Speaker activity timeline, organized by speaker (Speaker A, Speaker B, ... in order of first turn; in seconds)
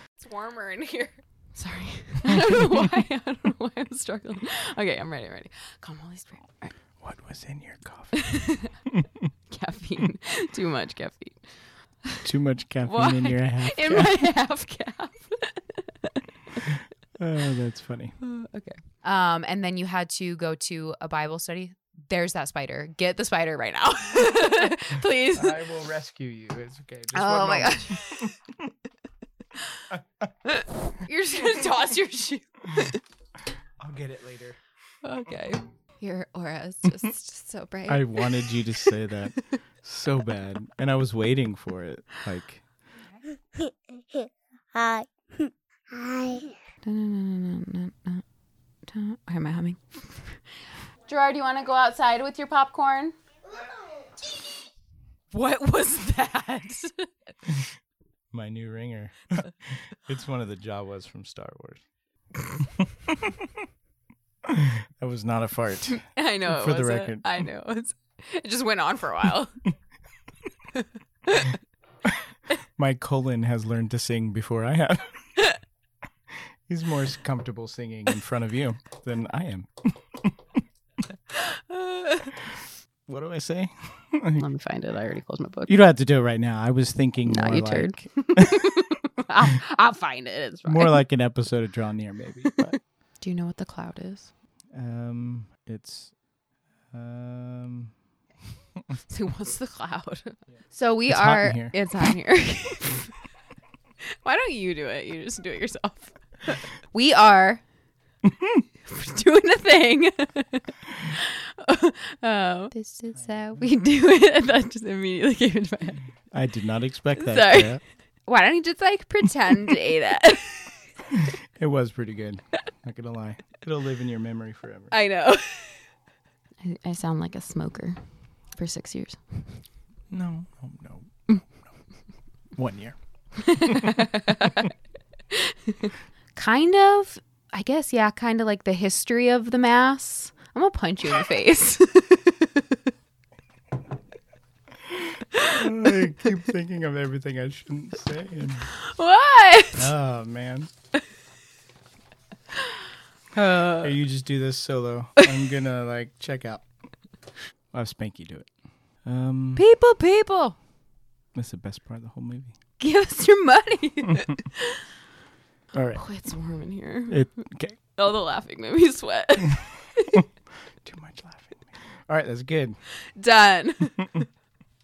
Speaker A: 0.2-6.8, 8.1-8.7, 9.5-11.4, 12.8-16.7, 18.2-25.6, 27.1-28.4, 29.6-29.9, 30.4-33.0, 35.0-39.5, 46.8-48.2, 48.9-50.4, 51.0-53.1, 55.3-57.1, 66.1-69.6, 70.7-71.6, 81.3-82.6, 84.4-85.7, 87.3-91.0, 92.4-94.3, 98.9-103.1, 104.1-107.6, 108.9-116.1, 117.1-120.8, 124.9-125.8, 126.6-128.0, 128.6-129.2, 133.4-134.7, 135.3-142.8, 145.3-145.6, 148.7-149.9, 153.3-153.9, 159.6-160.6, 162.8-164.8, 165.9-167.3, 167.9-170.2, 173.1-174.3
Speaker B: 7.0-9.3, 12.2-14.3, 17.2-18.1, 24.9-28.5, 31.4-31.7, 33.8-34.6, 37.9-42.6, 57.5-57.7, 58.3-61.8, 62.6-63.6, 64.4-67.4, 72.8-75.3, 76.7-80.6, 83.1-84.5, 85.7-88.8, 90.6-92.8, 94.7-96.1, 96.9-97.9, 101.1-102.1, 108.3-108.6, 113.3-113.6, 116.3-117.8, 121.1-124.9, 130.1-131.5, 132.6-134.6, 144.9-148.7, 149.8-150.7, 153.4-156.6, 157.7-158.5, 159.0-159.7, 161.3-162.5, 165.7-166.0, 167.1-167.8, 170.8-172.8
Speaker C: 43.6-46.5